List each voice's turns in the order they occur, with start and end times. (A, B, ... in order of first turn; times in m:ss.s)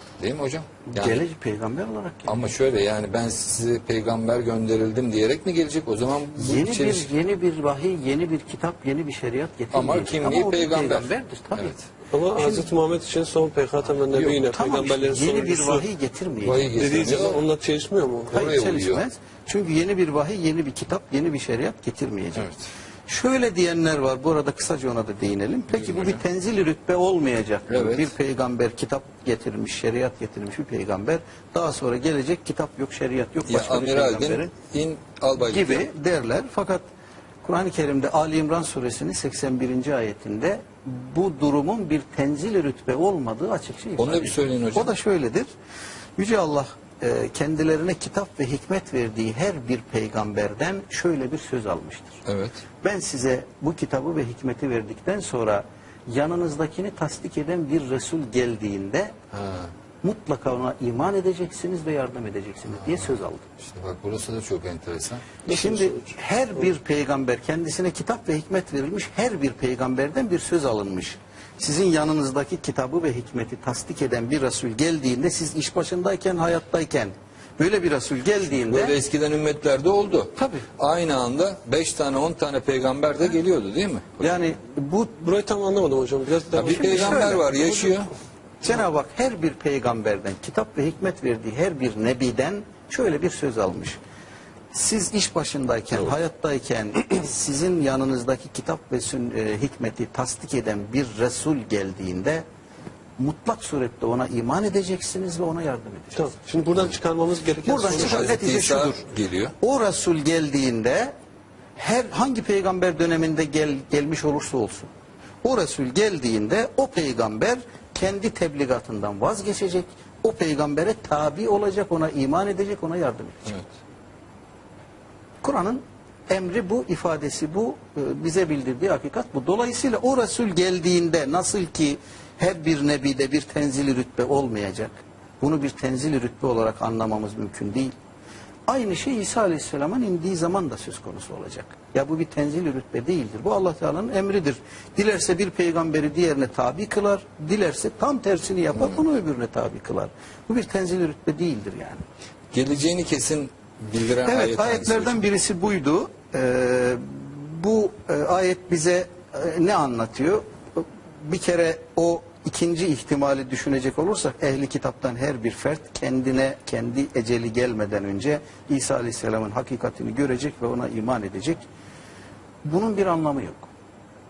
0:00.2-0:01.2 A
0:00.9-0:02.5 B
0:02.3-0:07.1 A
0:06.4-0:11.8 B
0:09.7-0:11.8 A
0:12.1-0:15.9 C
0:12.4-0:12.6 B
0:14.2-0:16.8 B
0:16.4-0:17.4 A
0:16.8-0:18.4 C
0:18.3-0:19.0 A
0:18.3-0:22.5 B
0:22.4-0:22.6 A
0:23.1-0:34.5 B
0:25.7-0:26.2 A
0:27.7-0:28.1 A
0:33.5-0:35.8 A
0:35.4-0:36.8 B
0:37.4-0:45.5 B
0:44.0-0:44.9 A
0:46.2-0:52.2 B
0:52.2-0:52.6 A
0:52.8-0:59.1 B
0:59.3-0:59.7 A
1:00.0-1:03.5 B
1:03.6-1:05.4 A
1:05.4-1:06.2 C
1:05.5-1:19.0 B
1:18.7-1:24.3 A
1:20.4-1:20.7 B
1:24.2-1:25.2 B
1:25.2-1:27.6 C
1:26.5-1:28.1 A
1:26.6-1:27.9 B
1:28.6-1:34.0 B
1:34.7-1:42.4 B
1:43.2-1:46.3 B
1:46.2-1:48.4 C
1:47.6-1:49.1 B
1:47.9-1:49.5 A
1:49.6-1:51.1 B
1:51.8-1:54.9 B
1:55.4-2:03.6 B
2:05.4-2:17.9 B
2:18.7-2:32.0 B
2:32.5-2:35.2 A
2:34.2-2:51.6 B
2:52.6-2:53.7 B